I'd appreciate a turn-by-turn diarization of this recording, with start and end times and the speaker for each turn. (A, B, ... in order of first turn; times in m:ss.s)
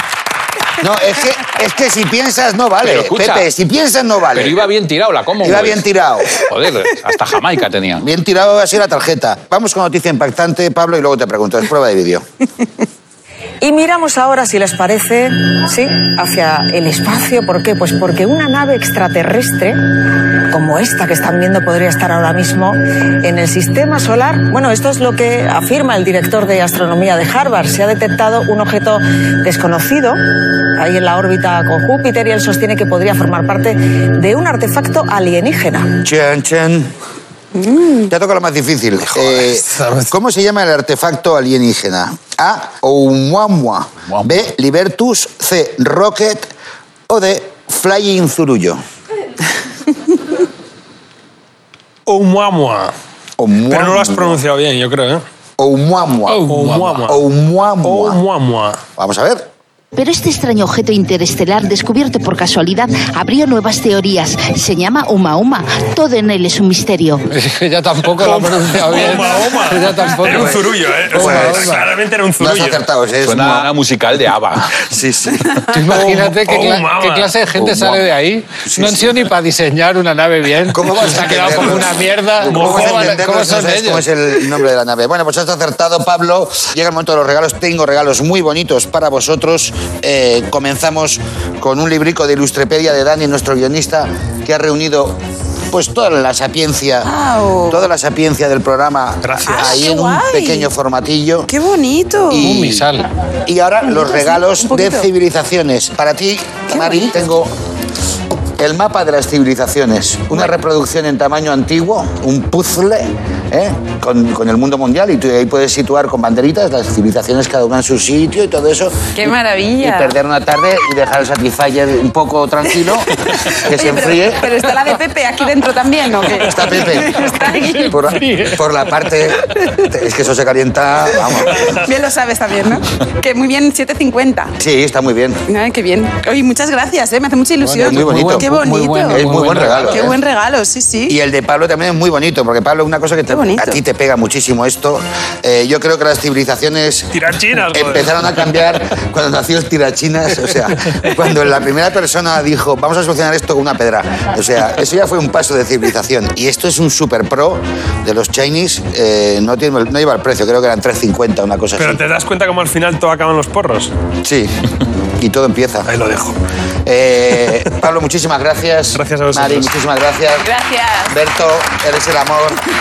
0:00.8-0:04.7 A
0:02.8-0:03.5 B
0:04.3-0:08.0 B
0:05.4-0:06.4 A
0:08.0-0:12.2 A
0:13.6-0:19.8 C
0:20.5-0:30.2 C
0:30.8-0:36.0 C
0:36.0-0:36.9 A
0:37.5-0:38.1 D
0:38.1-0:46.5 A
0:39.1-0:40.1 E
0:44.1-0:44.4 B
0:47.1-0:48.8 A
0:52.0-0:52.9 E
0:53.4-0:54.4 A
0:53.7-0:55.2 E
0:55.6-0:58.2 A
0:56.3-0:57.0 F
0:56.3-0:57.2 E
0:57.8-0:58.8 E
0:59.0-0:59.5 A
0:59.9-1:07.2 G
1:07.3-1:11.9 F
1:08.2-1:12.8 E
1:11.1-1:11.7 A
1:12.4-1:13.7 A
1:13.2-1:14.8 B
1:14.8-1:15.7 A
1:15.7-1:24.0 F
1:15.8-1:17.4 E
1:17.5-1:18.1 A
1:18.6-1:19.3 A
1:20.7-1:35.2 A
1:22.4-1:23.2 E
1:35.7-1:37.1 A
1:37.0-1:37.8 D
1:37.7-1:41.5 A
1:39.2-1:39.8 E
1:39.4-1:40.7 D
1:41.5-1:42.5 D
1:42.3-1:47.5 A
1:42.4-1:43.1 F
1:43.8-1:45.0 D
1:46.7-1:47.1 D
1:48.6-2:04.6 A
1:59.2-2:00.1 D
2:03.3-2:08.2 D
2:06.4-2:11.8 A
2:07.3-2:08.6 F
2:11.6-2:14.6 D
2:14.6-2:15.4 A
2:15.5-2:21.2 D
2:17.6-2:20.1 F
2:17.8-2:18.5 A
2:19.1-2:20.2 A
2:21.1-2:42.0 A
2:23.3-2:23.8 D
2:27.1-2:28.2 E
2:41.8-2:43.9 E
2:44.2-2:45.9 A
2:45.9-2:46.4 E
2:46.8-2:50.5 A
2:48.9-2:49.7 E
2:50.4-2:51.2 D
2:51.1-2:52.6 A